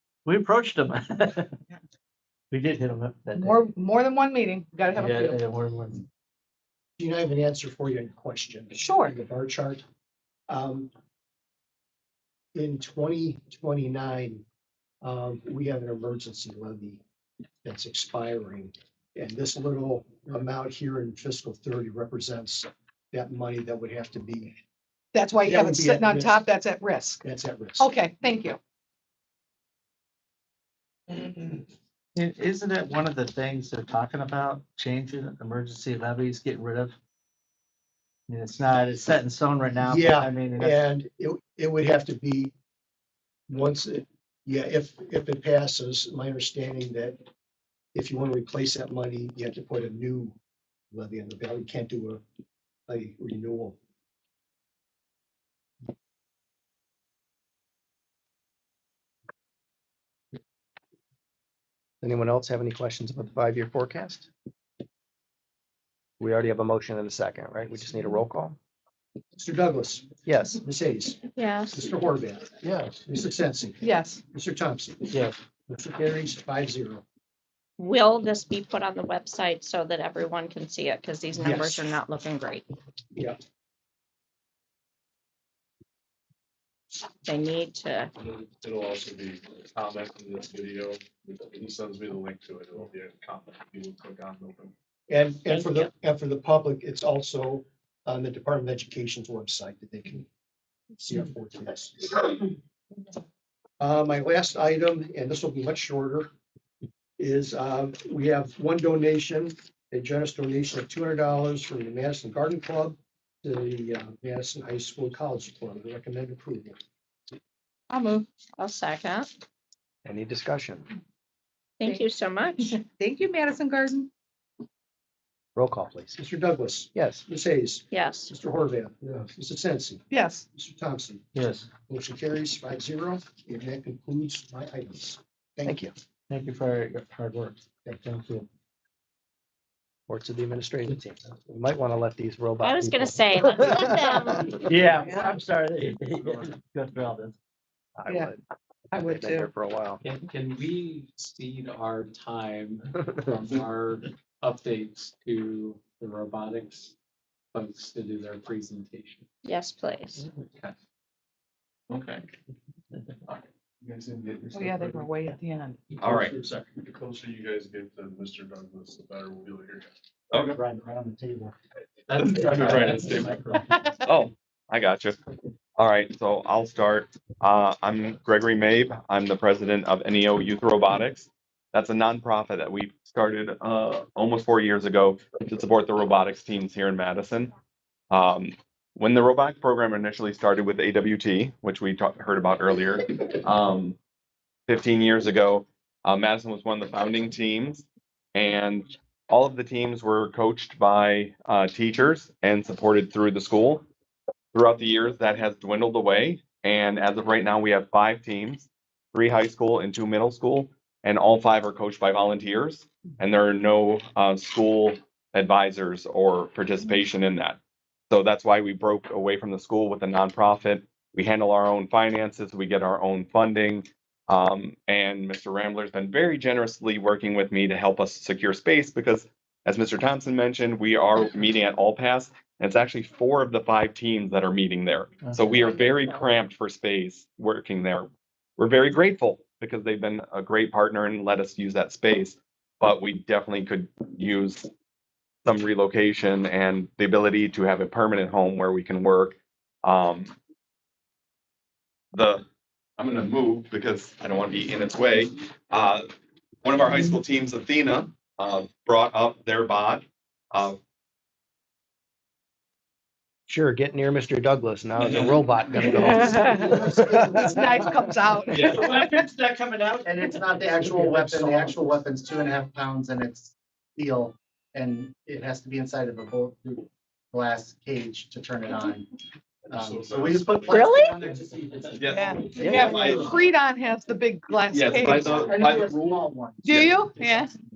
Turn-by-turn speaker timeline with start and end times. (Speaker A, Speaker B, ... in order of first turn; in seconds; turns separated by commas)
Speaker A: 0.2-1.6, Speaker A: 2.5-3.6, Speaker B: 3.4-5.4, Speaker A: 5.0-6.1, Speaker C: 7.0-9.8, Speaker B: 8.7-9.2, Speaker C: 10.5-10.9, Speaker C: 12.5-14.4, Speaker C: 15.0-17.0, Speaker C: 17.6-24.5, Speaker B: 25.1-27.2, Speaker C: 25.4-26.4, Speaker C: 27.2-27.9, Speaker B: 27.8-28.6, Speaker A: 31.2-31.6, Speaker A: 32.1-36.9, Speaker A: 38.3-40.8, Speaker C: 39.8-42.5, Speaker C: 43.5-47.2, Speaker C: 47.9-50.4, Speaker C: 50.9-52.2, Speaker C: 52.9-53.8, Speaker D: 62.0-64.3, Speaker D: 66.2-68.6, Speaker C: 69.4-71.2, Speaker D: 70.2-70.6, Speaker E: 71.4-71.8, Speaker C: 71.7-77.0, Speaker D: 72.6-73.0, Speaker B: 73.8-74.2, Speaker E: 77.8-82.7, Speaker C: 81.3-81.8, Speaker E: 87.2-88.1, Speaker F: 88.2-94.7, Speaker C: 95.1-100.3, Speaker E: 95.5-95.9, Speaker C: 101.0-102.5, Speaker C: 103.8-106.3, Speaker C: 107.2-116.8, Speaker B: 117.9-118.3, Speaker E: 118.6-119.3, Speaker D: 120.0-120.9, Speaker E: 121.8-122.8, Speaker B: 122.7-124.1, Speaker D: 125.6-126.2, Speaker C: 126.2-131.2, Speaker D: 126.9-127.3, Speaker E: 127.9-128.3, Speaker B: 130.1-130.5, Speaker A: 131.3-131.7, Speaker C: 131.8-135.8, Speaker D: 135.7-135.9, Speaker A: 136.3-138.5, Speaker D: 140.1-144.5, Speaker E: 142.6-144.6, Speaker A: 144.7-147.3, Speaker G: 144.7-145.2, Speaker D: 148.0-148.4, Speaker B: 148.1-148.3, Speaker B: 148.9-149.5, Speaker D: 148.9-150.0, Speaker G: 150.0-156.9, Speaker G: 157.5-159.2, Speaker E: 159.4-160.2, Speaker F: 163.8-165.1, Speaker B: 164.5-165.8, Speaker H: 166.0-166.3, Speaker F: 166.0-169.9, Speaker H: 170.3-170.6, Speaker A: 172.1-172.5, Speaker H: 172.2-173.0, Speaker G: 172.3-173.4, Speaker F: 172.4-173.5, Speaker B: 173.7-174.0, Speaker H: 174.1-175.2, Speaker H: 175.8-187.5, Speaker H: 188.1-194.0, Speaker H: 194.7-203.8, Speaker H: 204.5-217.6, Speaker H: 218.1-244.7, Speaker A: 235.2-235.5, Speaker E: 235.5-236.0, Speaker H: 245.4-250.3, Speaker H: 252.1-252.4, Speaker H: 253.0-256.1, Speaker H: 256.6-260.8, Speaker D: 263.5-268.0, Speaker B: 267.4-269.2, Speaker H: 268.5-268.8, Speaker I: 269.9-273.3, Speaker D: 270.8-271.2, Speaker C: 271.3-271.7, Speaker I: 274.0-274.9, Speaker I: 276.7-277.4, Speaker F: 279.7-281.4, Speaker I: 279.7-280.7, Speaker E: 280.8-281.2, Speaker I: 281.3-281.9, Speaker H: 281.9-283.4, Speaker B: 282.1-285.4, Speaker H: 284.7-286.2, Speaker I: 285.5-287.0, Speaker B: 286.6-287.5